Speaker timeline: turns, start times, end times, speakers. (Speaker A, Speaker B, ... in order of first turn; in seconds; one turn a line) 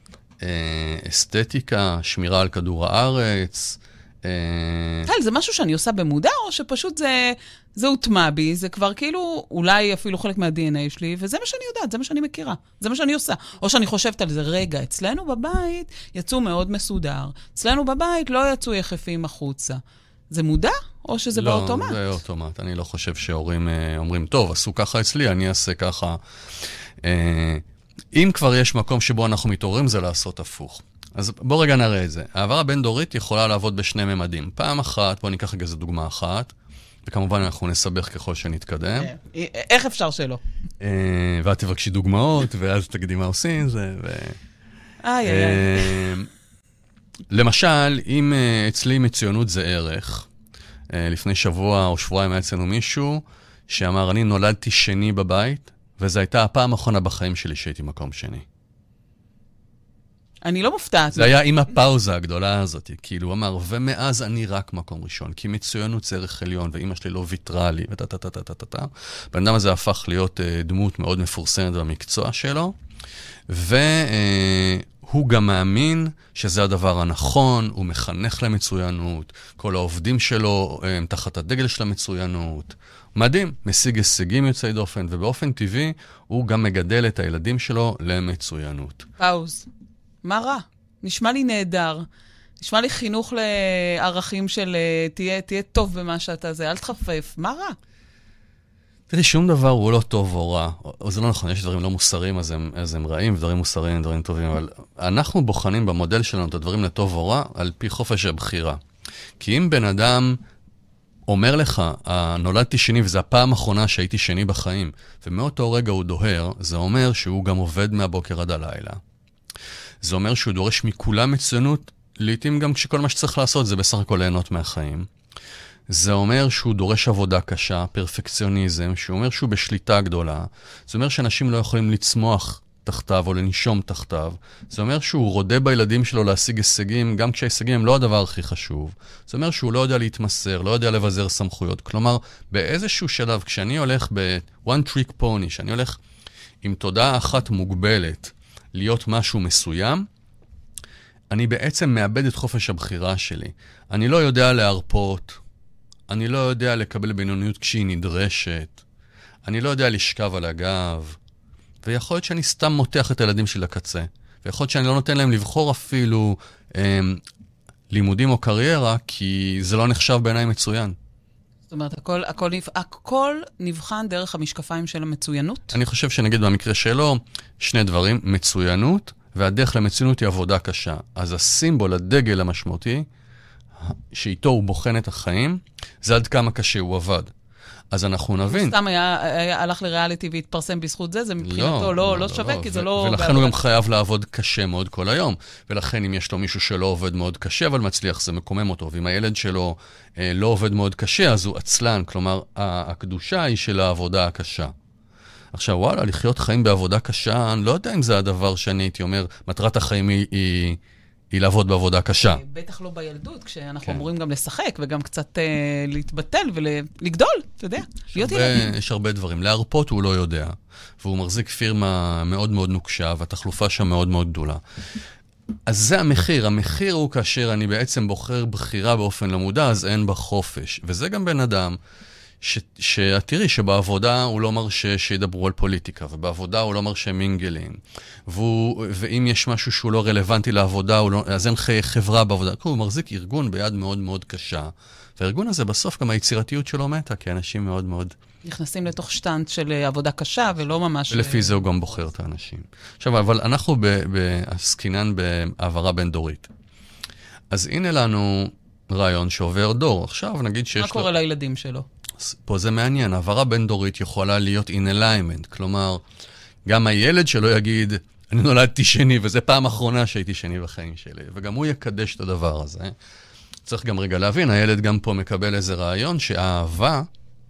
Speaker A: 0.4-5.1
Speaker B: 5.0-19.8
Speaker B: 20.3-22.0
Speaker A: 21.3-26.2
Speaker A: 27.0-36.5
Speaker A: 37.0-39.1
Speaker B: 39.0-40.4
Speaker A: 40.8-44.4
Speaker B: 45.0-46.1
Speaker A: 45.2-46.3
Speaker A: 47.3-50.3
Speaker A: 50.9-58.4
Speaker B: 60.4-61.4
Speaker A: 61.1-72.7
Speaker A: 73.5-89.1
Speaker B: 89.2-89.7
Speaker B: 90.2-92.0
Speaker B: 92.6-97.8
Speaker A: 99.1-108.8
Speaker A: 109.4-110.4
Speaker A: 111.3-119.0
Speaker A: 120.0-125.1
Speaker A: 125.9-146.0
Speaker A: 146.6-150.1
Speaker A: 151.3-155.4
Speaker A: 156.1-158.8
Speaker A: 159.4-161.2
Speaker A: 161.8-167.2
Speaker A: 167.9-170.9
Speaker B: 171.7-175.8
Speaker A: 175.7-183.1
Speaker A: 183.8-187.3
Speaker A: 187.9-188.8
Speaker B: 188.5-193.6
Speaker A: 191.4-204.7
Speaker A: 205.5-210.8
Speaker A: 211.3-212.4
Speaker B: 212.2-218.7
Speaker A: 218.1-224.6
Speaker A: 225.7-231.8
Speaker A: 232.4-248.1
Speaker B: 248.4-251.8
Speaker A: 251.1-256.5
Speaker A: 257.5-261.1
Speaker B: 260.7-261.9
Speaker A: 262.2-266.0
Speaker A: 266.6-272.9
Speaker A: 273.6-277.1